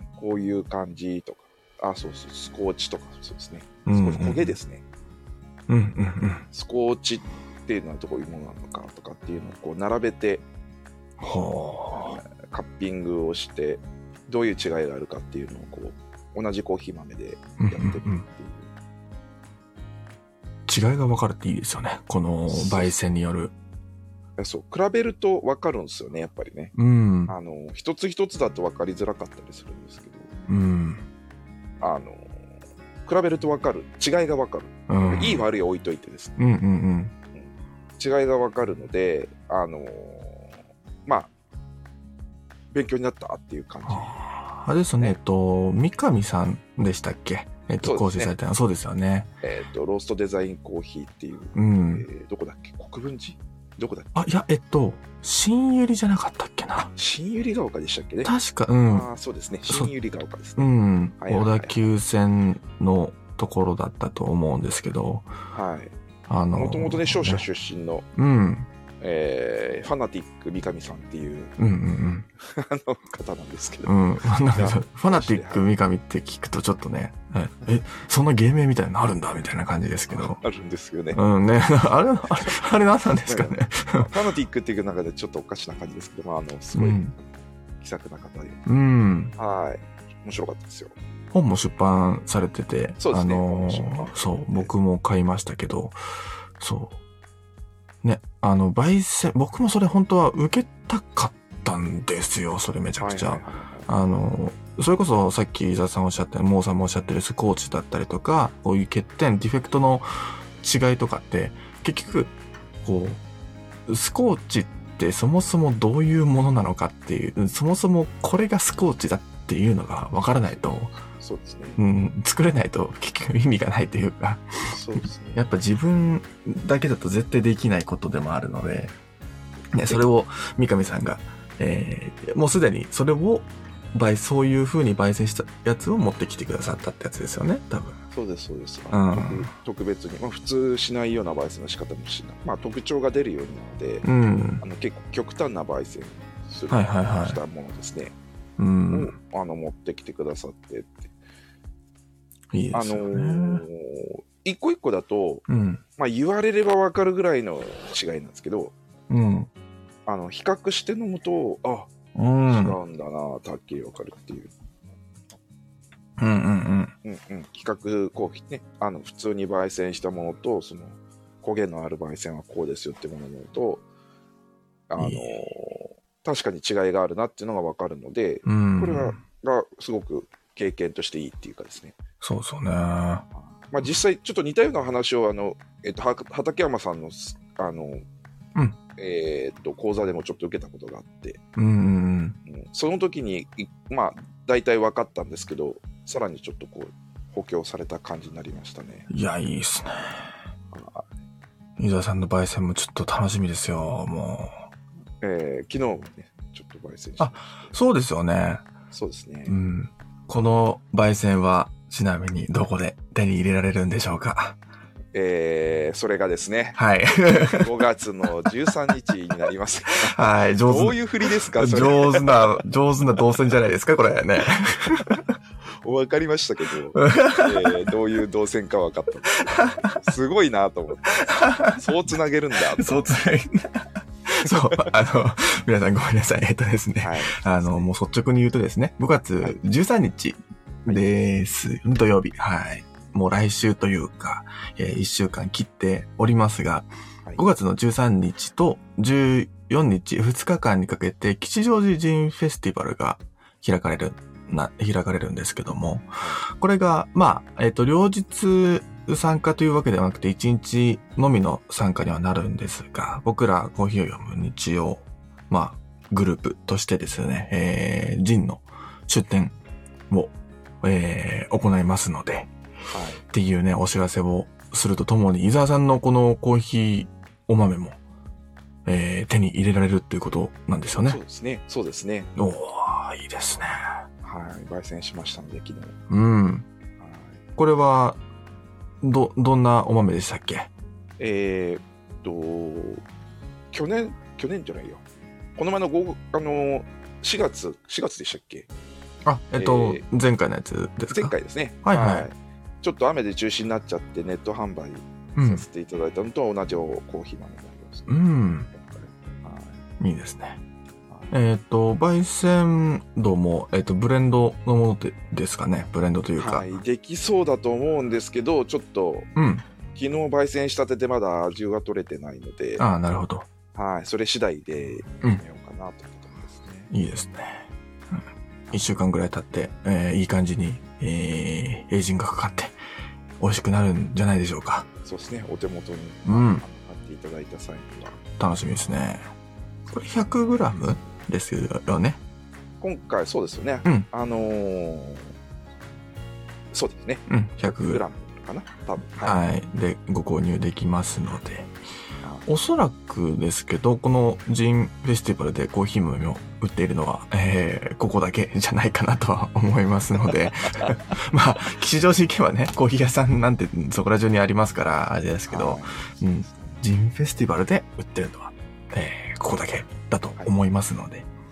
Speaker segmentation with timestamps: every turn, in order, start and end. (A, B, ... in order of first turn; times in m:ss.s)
0:00.1-0:04.8 A
0:03.8-0:04.6 B
0:05.7-0:06.4 B
0:06.5-0:10.4 A
0:11.2-0:12.2 B
0:11.9-0:18.7 A
0:17.6-0:18.2 B
0:20.7-0:23.5 B
0:22.5-0:22.9 A
0:24.4-0:26.7 A
0:26.7-0:27.3 B
0:27.3-0:30.3 A
0:30.5-0:31.0 B
0:31.8-0:32.2 A
0:33.0-0:36.4 A
0:34.9-0:35.4 B
0:36.4-0:37.1 B
0:37.4-0:40.5 A
0:42.7-0:44.2 A
0:43.9-0:49.3 B
0:47.8-0:48.3 A
0:49.4-0:54.3 A
0:51.5-0:52.0 B
0:54.1-0:56.9 B
0:57.0-0:58.3 A
0:58.2-0:59.1 B
0:58.9-1:01.8 A
1:00.6-1:05.3 B
1:05.5-1:05.9 A
1:06.3-1:07.4 B
1:06.5-1:08.1 A
1:08.1-1:08.7 B
1:09.0-1:11.6 A
1:11.6-1:12.3 B
1:12.4-1:15.7 A
1:13.8-1:20.4 B
1:20.1-1:21.2 A
1:21.1-1:24.1 B
1:23.2-1:28.6 A
1:26.7-1:27.1 B
1:28.6-1:29.3 B
1:29.3-1:30.9 A
1:31.3-1:36.0 B
1:33.0-1:34.7 A
1:36.6-1:37.0 B
1:38.0-1:53.2 B
1:43.0-1:43.9 A
1:53.9-2:00.9 B
2:01.2-2:01.8 A
2:01.8-2:08.9 B
2:04.6-2:05.4 A
2:09.7-2:10.0 A
2:09.7-2:18.0 B
2:18.1-2:24.0 A
2:18.9-2:19.5 B
2:24.0-2:24.6 B
2:24.6-2:28.1 A
2:26.7-2:27.4 B
2:28.6-2:29.1 B
2:28.9-2:31.1 A
2:32.5-2:33.6 B
2:32.7-2:35.4 A
2:35.5-2:35.8 B
2:36.0-2:38.7 A
2:39.1-2:39.5 B
2:40.0-2:41.9 A
2:42.1-2:42.8 B
2:42.5-2:44.5 A
2:46.2-2:46.9 B
2:47.0-2:53.8 A
2:54.9-3:02.0 A
2:55.0-2:55.3 B
2:58.4-2:59.2 B
3:02.2-3:03.2 B
3:03.6-3:08.0 A
3:09.0-3:11.4 A
3:11.6-3:12.4 B
3:12.5-3:19.1 A
3:19.1-3:20.3 B
3:20.7-3:21.1 A
3:21.8-3:24.6 B
3:25.2-3:27.7 A
3:27.2-3:28.6 B
3:28.9-3:29.6 A
3:29.5-3:34.6 B
3:35.1-3:36.8 A
3:36.8-3:37.7 B
3:37.3-3:42.6 A
3:40.0-3:45.2 B
3:44.9-3:45.3 A
3:45.8-3:52.9 A
3:46.9-3:47.9 B
3:49.4-3:50.0 B
3:51.1-3:51.9 B
3:52.6-4:29.5 B
3:57.0-3:57.9 A
4:30.1-4:32.5 B
4:32.9-4:33.2 A
4:33.3-4:38.0 B
4:38.8-4:41.2 B
4:41.0-4:42.3 A
4:42.4-4:43.9 B
4:44.2-4:46.0 A
4:46.1-4:46.7 B
4:47.0-4:47.4 A
4:47.6-4:48.2 B
4:49.0-4:50.7 B
4:51.2-4:53.0 A
4:53.7-4:55.0 A
4:55.6-4:58.7 A
4:59.2-5:02.3 B
4:59.6-5:00.0 A
5:01.1-5:09.8 A
5:05.4-5:05.6 B
5:08.1-5:08.7 B
5:10.0-5:10.6 B
5:11.3-5:16.7 B
5:16.4-5:19.3 A
5:19.4-5:19.6 B
5:19.9-5:22.8 A
5:22.8-5:23.5 B
5:23.7-5:26.9 A
5:26.9-5:32.8 B
5:28.7-5:28.9 A
5:33.4-5:34.9 B
5:35.0-5:38.2 A
5:36.2-5:36.6 B
5:38.4-5:39.2 B
5:39.9-5:42.2 B
5:42.8-5:45.3 A
5:46.7-5:49.4 A
5:47.3-5:48.0 B
5:49.2-5:51.7 B
5:52.4-6:11.3 B
6:05.5-6:06.8 A